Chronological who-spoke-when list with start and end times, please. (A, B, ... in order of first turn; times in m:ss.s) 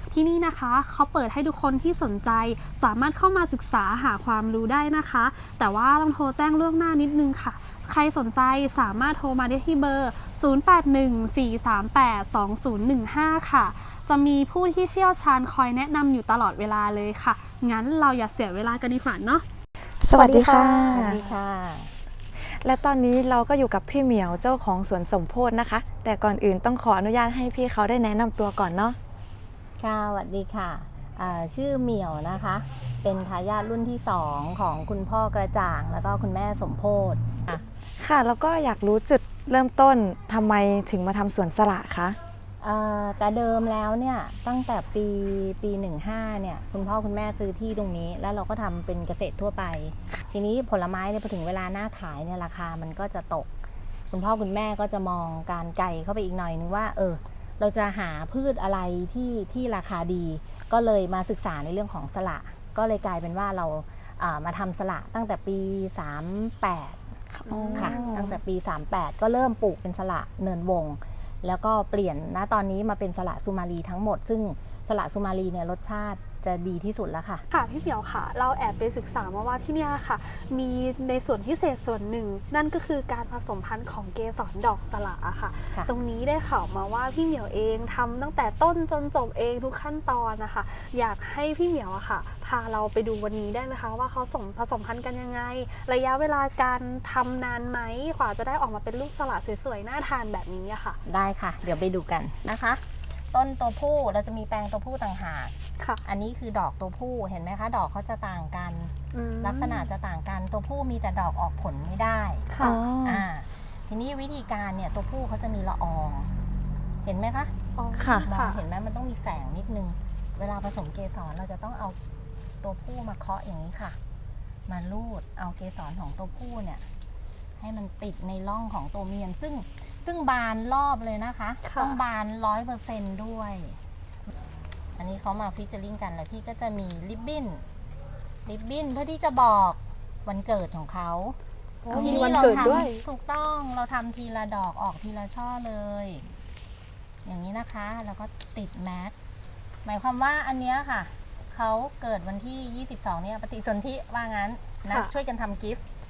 0:00.1-0:19.4 A
0:20.0-0:21.2 B
0:20.2-0:21.2 A
0:20.2-0:21.9 C
0:22.4-0:29.0 B
0:29.8-0:37.6 C
0:38.0-0:42.2 B
0:42.6-0:53.5 C
0:54.1-1:07.0 C
1:07.3-1:08.4 B
1:07.5-1:08.0 A
1:07.7-1:17.4 C
1:17.5-1:41.0 A
1:41.1-1:45.5 C
1:46.0-1:56.3 C
1:49.1-1:49.9 A
1:52.5-1:52.8 A
1:52.6-1:53.2 B
1:57.0-1:57.5 C
1:57.8-1:58.6 A
1:58.0-1:58.3 B
1:58.3-2:02.0 C
2:02.6-2:04.0 C
2:04.7-2:06.9 C
2:07.6-2:13.8 C
2:11.6-2:12.0 A
2:15.0-2:17.6 C
2:18.4-2:21.4 C
2:21.8-2:23.0 A
2:21.9-2:22.2 B
2:21.9-2:26.3 C
2:27.2-2:29.2 C
2:29.8-2:35.8 C